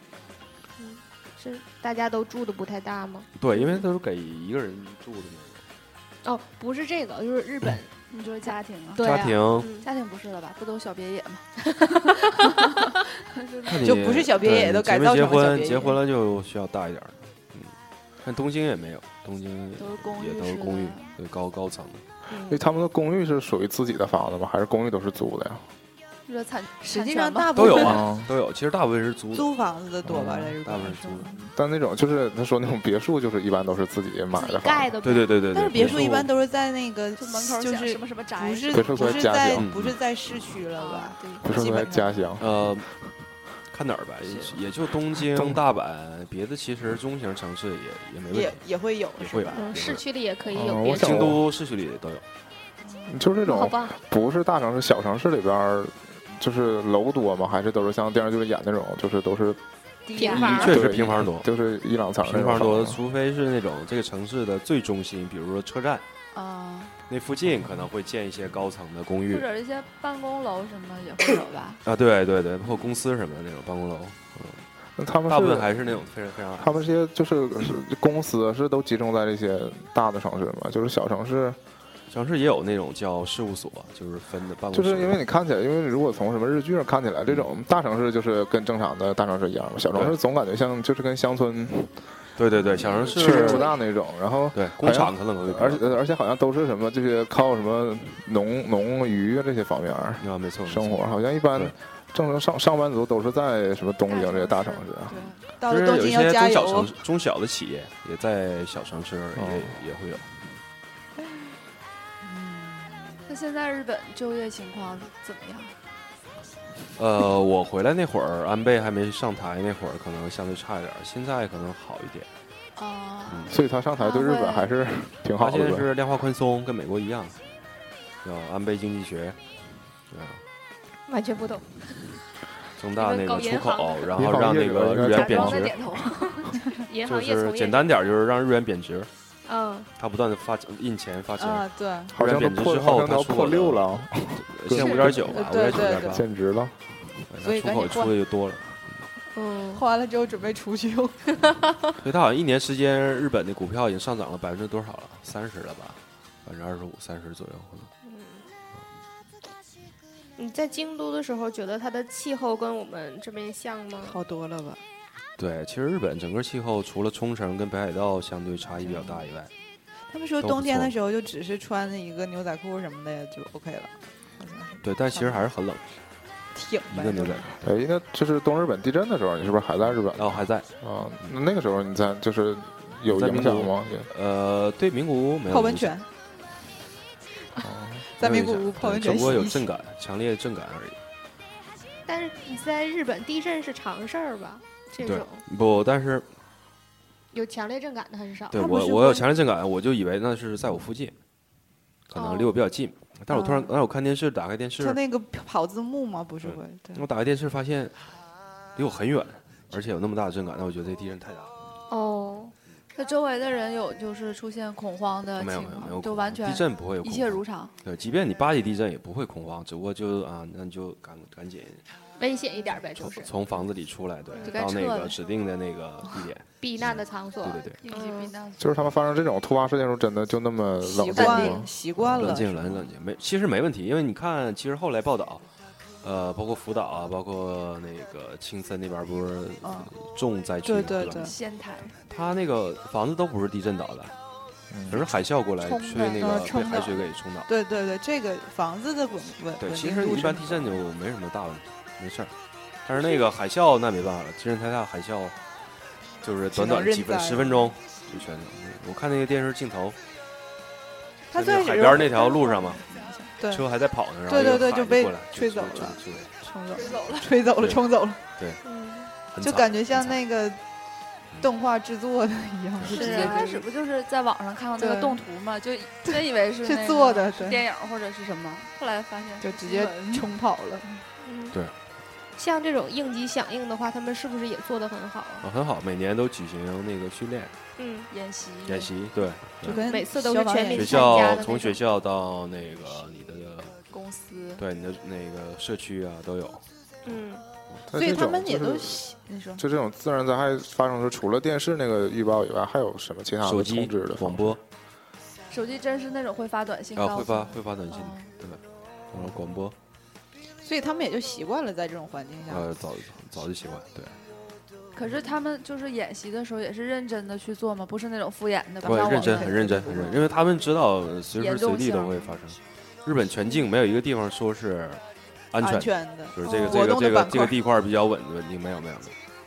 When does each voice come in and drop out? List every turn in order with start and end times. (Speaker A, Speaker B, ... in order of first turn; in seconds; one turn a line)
Speaker A: 0.8-3.8
Speaker B: 3.3-5.6
Speaker A: 6.2-7.9
Speaker C: 8.1-9.1
Speaker A: 8.5-9.9
Speaker B: 9.0-9.7
Speaker C: 9.8-13.9
Speaker A: 11.9-12.5
Speaker B: 13.7-22.0
Speaker D: 13.8-16.0
Speaker C: 19.8-21.1
Speaker A: 22.3-22.6
Speaker E: 22.5-25.7
Speaker C: 26.2-27.8
Speaker D: 26.8-28.0
Speaker B: 27.5-29.5
Speaker E: 27.8-28.3
Speaker D: 29.3-31.4
Speaker B: 30.1-31.3
Speaker E: 30.1-30.5
Speaker E: 31.5-34.9
Speaker A: 34.3-35.3
Speaker B: 35.0-36.3
Speaker D: 35.5-42.2
Speaker C: 37.1-39.3
Speaker E: 38.7-39.7
Speaker B: 39.5-40.0
Speaker C: 40.8-41.5
Speaker E: 41.4-42.9
Speaker B: 42.4-42.9
Speaker B: 43.7-48.6
Speaker E: 45.3-45.6
Speaker D: 48.3-49.7
Speaker B: 49.2-50.0
Speaker A: 49.5-51.3
Speaker E: 50.5-51.4
Speaker B: 50.9-52.2
Speaker E: 53.1-59.6
Speaker A: 53.5-53.9
Speaker C: 60.1-60.8
Speaker A: 60.1-60.7
Speaker E: 60.2-63.0
Speaker B: 60.4-61.5
Speaker B: 62.2-66.0
Speaker C: 66.3-67.0
Speaker B: 67.1-69.5
Speaker C: 69.3-71.8
Speaker B: 71.8-74.6
Speaker E: 75.0-75.9
Speaker B: 75.3-76.7
Speaker E: 76.5-81.6
Speaker B: 82.1-85.2
Speaker E: 84.7-92.2
Speaker B: 92.3-93.7
Speaker A: 92.8-93.7
Speaker E: 93.1-105.2
Speaker B: 94.5-95.8
Speaker B: 100.2-101.7
Speaker C: 104.1-105.4
Speaker D: 105.1-106.9
Speaker B: 105.7-110.5
Speaker E: 109.3-109.8
Speaker D: 112.2-113.3
Speaker C: 113.3-115.8
Speaker B: 117.0-122.3
Speaker C: 122.8-124.8
Speaker B: 123.3-123.5
Speaker E: 123.5-125.9
Speaker B: 125.4-127.4
Speaker B: 128.2-129.4
Speaker B: 130.1-130.4
Speaker A: 131.1-132.0
Speaker B: 132.8-135.7
Speaker A: 132.9-134.3
Speaker E: 134.1-135.9
Speaker C: 134.9-136.8
Speaker A: 136.7-137.8
Speaker B: 137.1-139.1
Speaker A: 139.4-139.9
Speaker B: 140.0-146.2
Speaker D: 141.4-142.1
Speaker E: 142.1-146.8
Speaker A: 144.7-145.1
Speaker D: 145.3-146.2
Speaker B: 147.2-149.1
Speaker D: 147.4-148.1
Speaker A: 149.3-149.8
Speaker D: 149.7-151.2
Speaker A: 151.4-151.9
Speaker B: 152.0-157.9
Speaker A: 158.0-158.5
Speaker A: 160.4-164.2
Speaker D: 164.0-164.8
Speaker B: 165.4-169.5
Speaker D: 168.8-169.2
Speaker D: 170.1-175.4
Speaker B: 170.4-170.9
Speaker B: 174.8-176.0
Speaker D: 176.5-177.5
Speaker B: 176.9-177.6
Speaker E: 177.6-184.1
Speaker B: 180.1-180.7
Speaker B: 183.1-185.9
Speaker D: 185.5-186.1
Speaker E: 187.6-188.0
Speaker D: 188.1-189.7
Speaker B: 188.2-191.0
Speaker A: 192.1-195.4
Speaker B: 195.0-196.3
Speaker A: 197.3-198.6
Speaker B: 198.5-201.1
Speaker D: 198.5-199.2
Speaker B: 202.1-205.0
Speaker A: 202.1-202.5
Speaker D: 203.3-203.7
Speaker D: 204.8-207.0
Speaker B: 206.4-208.1
Speaker B: 208.8-211.5
Speaker A: 211.9-212.5
Speaker C: 212.9-217.7
Speaker B: 215.4-221.8
Speaker A: 222.2-223.3
Speaker B: 223.1-227.8
Speaker A: 224.3-224.6
Speaker C: 224.4-225.2
Speaker A: 226.6-228.3
Speaker C: 227.8-228.8
Speaker E: 228.6-232.3
Speaker D: 230.8-232.5
Speaker A: 231.2-231.5
Speaker C: 231.2-231.6
Speaker B: 232.0-235.4
Speaker B: 236.0-241.2
Speaker D: 239.6-239.9
Speaker D: 240.6-241.3
Speaker C: 241.1-242.0
Speaker B: 242.1-244.1
Speaker E: 244.7-245.1
Speaker B: 244.9-247.5
Speaker C: 245.6-246.9
Speaker D: 246.2-250.8
Speaker B: 249.6-252.3
Speaker B: 252.8-255.4
Speaker B: 256.2-260.0
Speaker D: 256.5-257.8
Speaker D: 261.3-263.6
Speaker B: 261.3-262.8
Speaker B: 263.5-266.3
Speaker D: 264.3-268.2
Speaker C: 266.7-267.3
Speaker A: 268.6-269.1
Speaker B: 269.3-270.2
Speaker D: 269.4-270.6
Speaker D: 271.4-273.6
Speaker C: 272.9-280.3
Speaker A: 272.9-273.5
Speaker D: 274.8-275.2
Speaker D: 276.1-277.6
Speaker D: 279.4-281.0
Speaker A: 281.2-281.6
Speaker A: 282.4-285.5
Speaker B: 285.4-287.5
Speaker A: 287.8-288.1
Speaker C: 288.1-288.9
Speaker B: 288.6-289.8
Speaker D: 289.6-291.4
Speaker A: 289.6-291.8
Speaker B: 290.7-293.8
Speaker C: 293.9-294.6
Speaker B: 294.6-297.2
Speaker A: 297.1-297.4
Speaker E: 297.9-299.0
Speaker D: 297.9-299.6
Speaker E: 299.6-304.6
Speaker B: 303.4-304.6
Speaker C: 305.5-308.3
Speaker B: 306.9-309.7
Speaker E: 309.1-309.6
Speaker D: 310.6-312.6
Speaker B: 312.5-314.1
Speaker C: 314.9-320.2
Speaker B: 318.8-329.1
Speaker D: 318.8-320.2
Speaker C: 321.3-322.4
Speaker D: 325.6-327.6
Speaker A: 326.4-326.8